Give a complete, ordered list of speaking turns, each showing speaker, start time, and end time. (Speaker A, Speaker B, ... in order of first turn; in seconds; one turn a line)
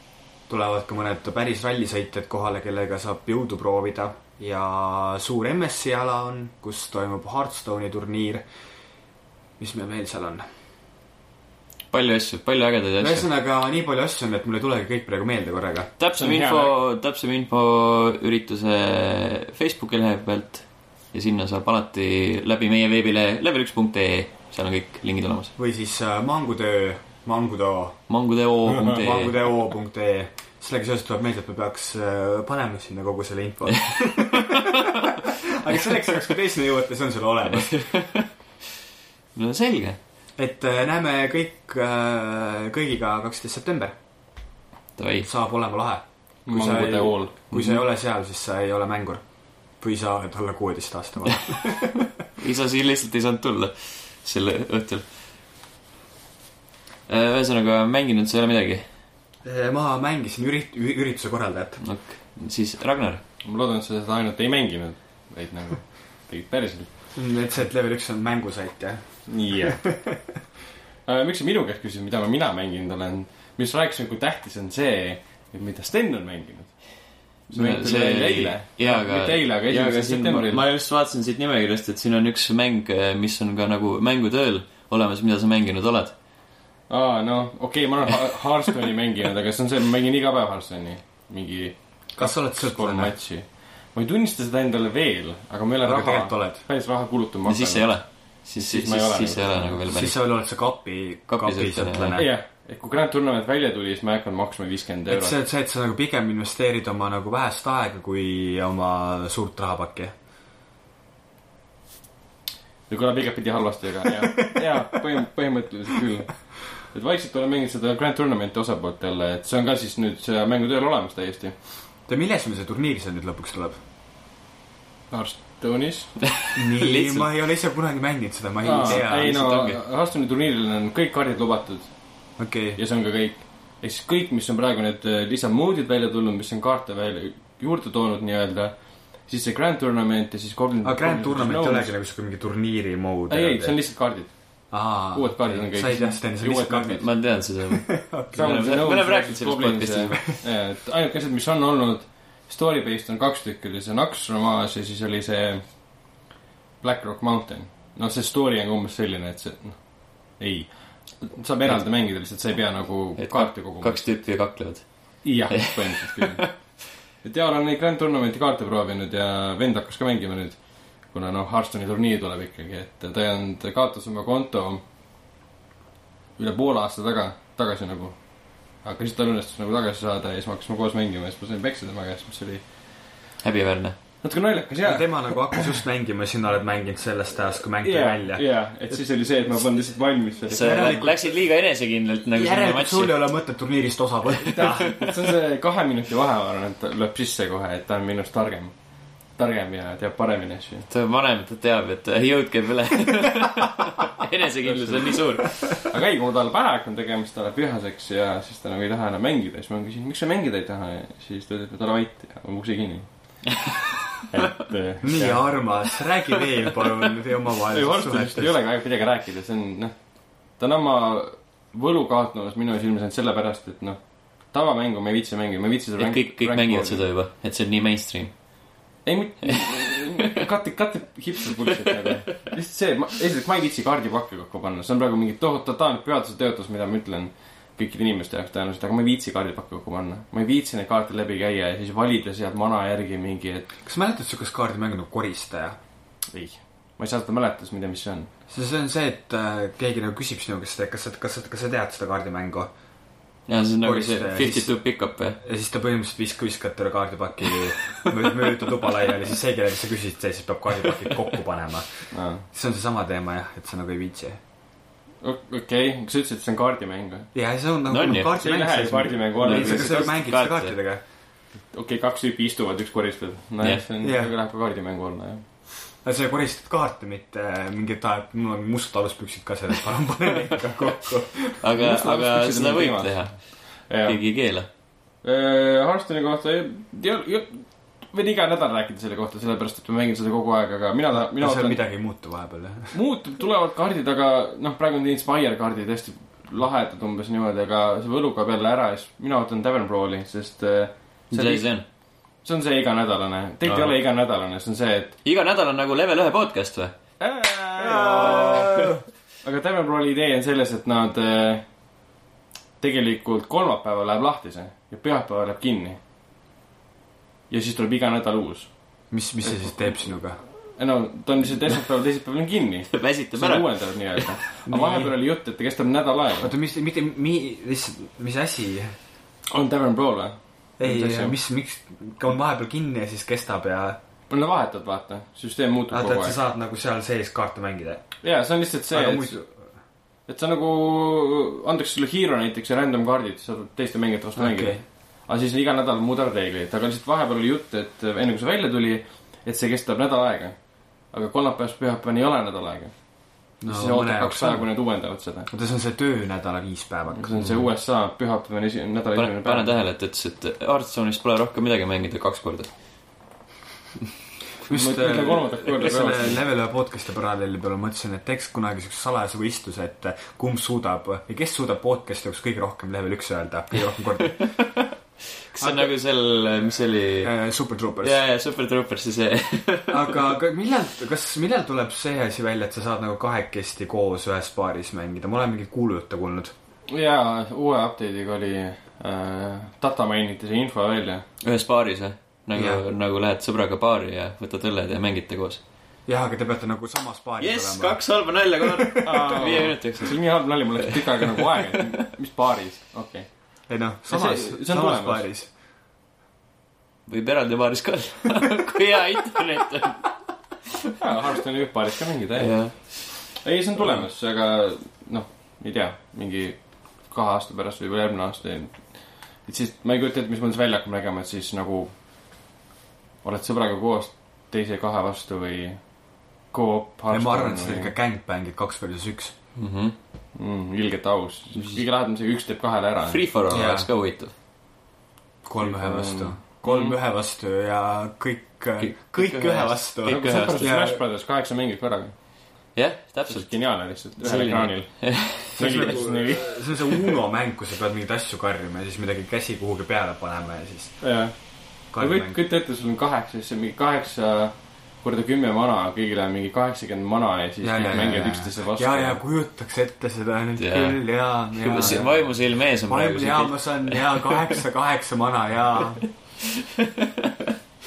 Speaker A: 0.5-8.4
Speaker A: 9.6-10.4
Speaker B: 11.9-13.3
Speaker A: 13.0-15.9
Speaker B: 16.0-25.5
Speaker C: 16.2-16.8
Speaker A: 25.6-28.1
Speaker B: 28.1-29.4
Speaker A: 28.7-38.1
Speaker B: 33.9-34.6
Speaker B: 37.7-38.3
Speaker B: 39.4-40.0
Speaker A: 40.4-44.0
Speaker B: 45.0-45.3
Speaker A: 45.2-49.2
Speaker C: 46.5-47.4
Speaker B: 47.5-47.8
Speaker A: 49.8-52.0
Speaker B: 52.4-55.0
Speaker B: 57.1-58.9
Speaker A: 59.5-61.8
Speaker B: 61.8-63.2
Speaker C: 63.4-66.9
Speaker A: 67.2-70.4
Speaker C: 69.3-69.8
Speaker C: 71.1-80.6
Speaker B: 77.5-86.1
Speaker C: 86.9-97.9
Speaker A: 92.2-93.1
Speaker A: 95.8-96.6
Speaker B: 97.5-100.2
Speaker C: 98.5-99.8
Speaker A: 99.9-102.3
Speaker B: 101.3-102.2
Speaker C: 102.2-105.4
Speaker A: 105.1-110.1
Speaker C: 112.9-121.5
Speaker A: 122.1-123.8
Speaker C: 125.1-126.2
Speaker B: 126.5-127.3
Speaker A: 126.6-129.4
Speaker C: 128.6-141.9
Speaker B: 128.8-129.8
Speaker A: 132.4-132.8
Speaker A: 140.8-143.8
Speaker C: 143.3-147.0
Speaker A: 144.7-147.1
Speaker B: 147.0-150.2
Speaker A: 147.7-148.8
Speaker C: 148.3-155.7
Speaker C: 156.8-164.2
Speaker B: 163.2-164.9
Speaker C: 165.2-174.8
Speaker B: 165.5-166.5
Speaker C: 176.4-182.7
Speaker B: 183.4-184.0
Speaker C: 184.2-185.8
Speaker A: 184.8-188.5
Speaker C: 187.8-191.1
Speaker B: 190.5-193.2
Speaker A: 190.6-191.2
Speaker A: 192.3-195.0
Speaker C: 194.5-198.7
Speaker B: 194.5-195.1
Speaker C: 199.4-200.9
Speaker B: 200.9-205.8
Speaker C: 204.7-213.6
Speaker C: 214.2-215.5
Speaker A: 215.0-218.5
Speaker C: 217.7-227.1
Speaker B: 226.0-228.3
Speaker C: 229.1-243.7
Speaker A: 243.8-245.8
Speaker C: 246.3-248.3
Speaker A: 248.5-252.7
Speaker B: 253.5-255.4
Speaker A: 253.8-254.7
Speaker A: 255.4-264.4
Speaker C: 262.1-262.4
Speaker C: 265.2-267.3
Speaker A: 267.3-271.0
Speaker B: 267.9-268.3
Speaker C: 268.4-270.1
Speaker B: 269.4-270.8
Speaker C: 271.7-275.4
Speaker A: 274.0-274.3
Speaker A: 276.0-281.7
Speaker B: 281.6-284.7
Speaker C: 281.7-284.2
Speaker C: 285.2-291.8
Speaker A: 291.2-293.0
Speaker C: 292.9-301.7
Speaker B: 301.3-301.8
Speaker C: 302.4-305.1
Speaker B: 303.6-303.9
Speaker B: 305.2-307.0
Speaker C: 307.2-308.9
Speaker A: 307.8-309.0
Speaker C: 309.4-311.6
Speaker C: 312.8-316.0
Speaker C: 317.5-318.7
Speaker A: 319.1-320.4
Speaker C: 319.4-320.1
Speaker C: 320.8-326.5
Speaker B: 322.9-324.4
Speaker A: 324.7-325.1
Speaker A: 326.4-329.0
Speaker C: 329.5-331.4
Speaker A: 330.8-334.0
Speaker C: 334.3-336.4
Speaker A: 335.9-338.1
Speaker C: 338.2-339.4
Speaker A: 338.9-339.5
Speaker C: 340.3-350.6
Speaker A: 344.4-344.8
Speaker C: 351.1-352.9
Speaker C: 353.6-355.5
Speaker A: 353.6-354.7
Speaker A: 355.5-357.5
Speaker C: 357.1-359.7
Speaker B: 359.1-362.7
Speaker A: 364.6-374.5
Speaker C: 364.7-366.4
Speaker B: 374.2-374.9
Speaker B: 375.5-377.3
Speaker A: 375.6-375.9
Speaker A: 377.2-378.2
Speaker B: 378.0-380.1
Speaker A: 379.9-386.5
Speaker C: 386.9-391.2
Speaker B: 391.4-395.6
Speaker A: 392.6-392.8
Speaker A: 396.1-399.6
Speaker B: 397.4-400.2
Speaker C: 399.0-403.3
Speaker B: 400.8-401.8
Speaker A: 403.7-405.5
Speaker C: 404.1-405.3
Speaker B: 407.1-410.1
Speaker C: 411.0-421.9
Speaker B: 412.4-413.2
Speaker C: 423.2-425.8
Speaker C: 426.5-427.9
Speaker A: 427.1-429.3
Speaker B: 429.6-429.9
Speaker C: 430.4-433.2
Speaker B: 433.1-434.3
Speaker A: 433.5-433.9
Speaker A: 435.4-441.0
Speaker C: 435.6-437.0
Speaker B: 438.8-440.7
Speaker C: 440.1-442.1
Speaker B: 442.7-445.9
Speaker C: 443.3-446.7
Speaker A: 445.6-451.1
Speaker C: 451.0-459.2
Speaker A: 451.9-452.4
Speaker A: 457.6-462.3
Speaker B: 460.6-461.0
Speaker B: 461.5-464.5
Speaker C: 461.8-462.1
Speaker A: 462.9-466.1
Speaker B: 466.6-467.5